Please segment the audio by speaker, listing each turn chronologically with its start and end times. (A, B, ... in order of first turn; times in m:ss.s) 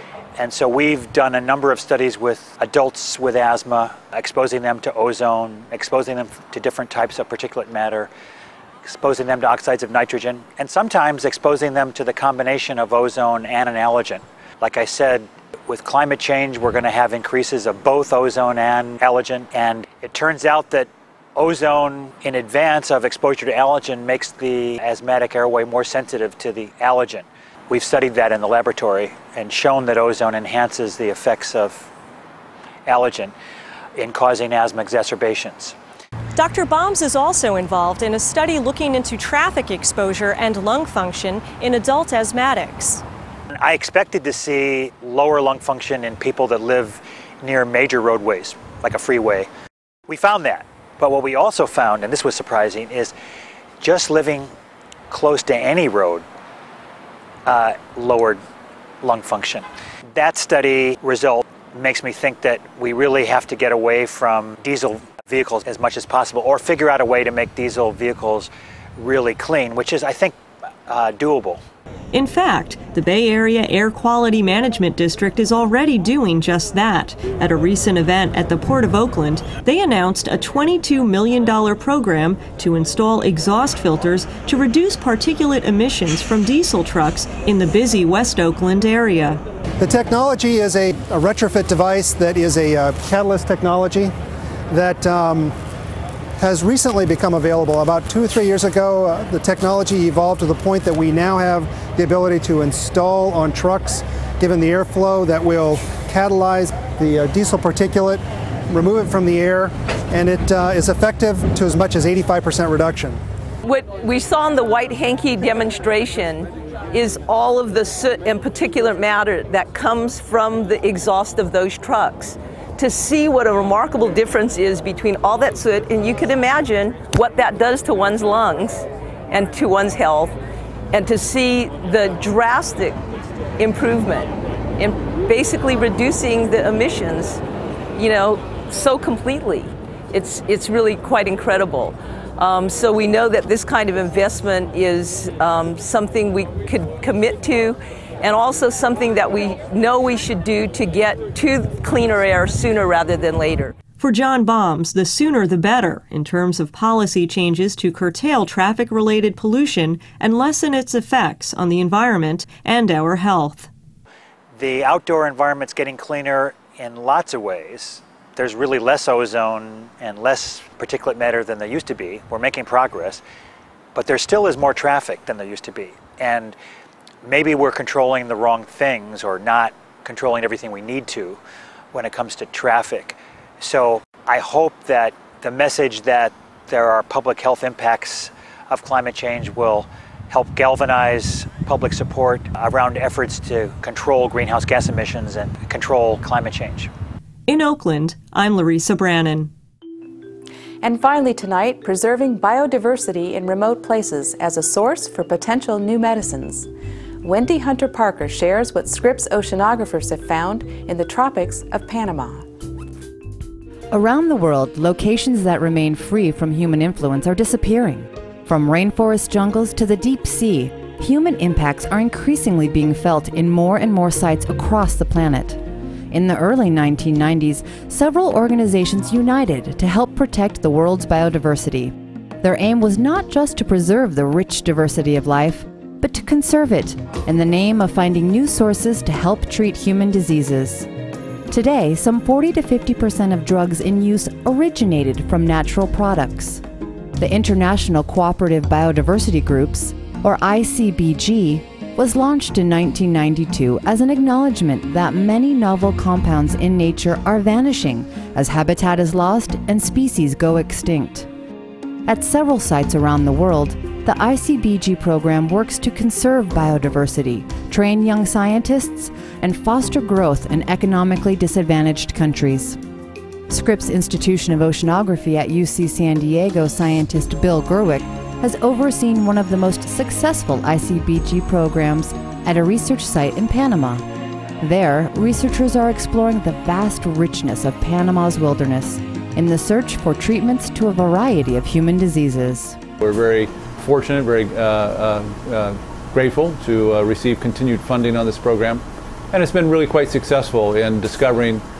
0:00.4-0:08.1 A
0:08.8-0:31.9 A
0:32.9-0:33.3 A
0:34.0-0:35.7 A
0:36.4-0:43.0 B
0:43.5-0:49.5 A
0:50.1-0:53.1 A
0:53.8-0:54.5 A
0:55.1-0:56.2 A
0:57.4-0:58.4 A
0:59.0-1:10.4 A
1:10.9-1:11.6 A
1:12.1-1:29.4 C
1:29.8-1:34.1 D
1:34.7-1:35.5 D
1:36.4-1:53.2 D
1:53.6-2:10.4 E
2:10.9-2:13.0 E
2:13.6-2:17.4 E
2:18.0-2:33.7 E
2:34.0-2:43.7 C
2:44.6-2:53.2 A
2:53.9-2:56.6 A
2:57.2-3:01.4 A
3:01.9-3:16.9 A
3:17.5-3:19.5 C
3:20.8-3:26.7 F
3:27.2-3:32.4 F
3:33.9-4:00.9 G
4:01.5-4:06.6 G
4:07.2-4:21.3 G
4:22.0-4:32.8 G
4:33.5-4:44.0 G
4:44.6-4:52.8 G
4:53.0-5:01.6 H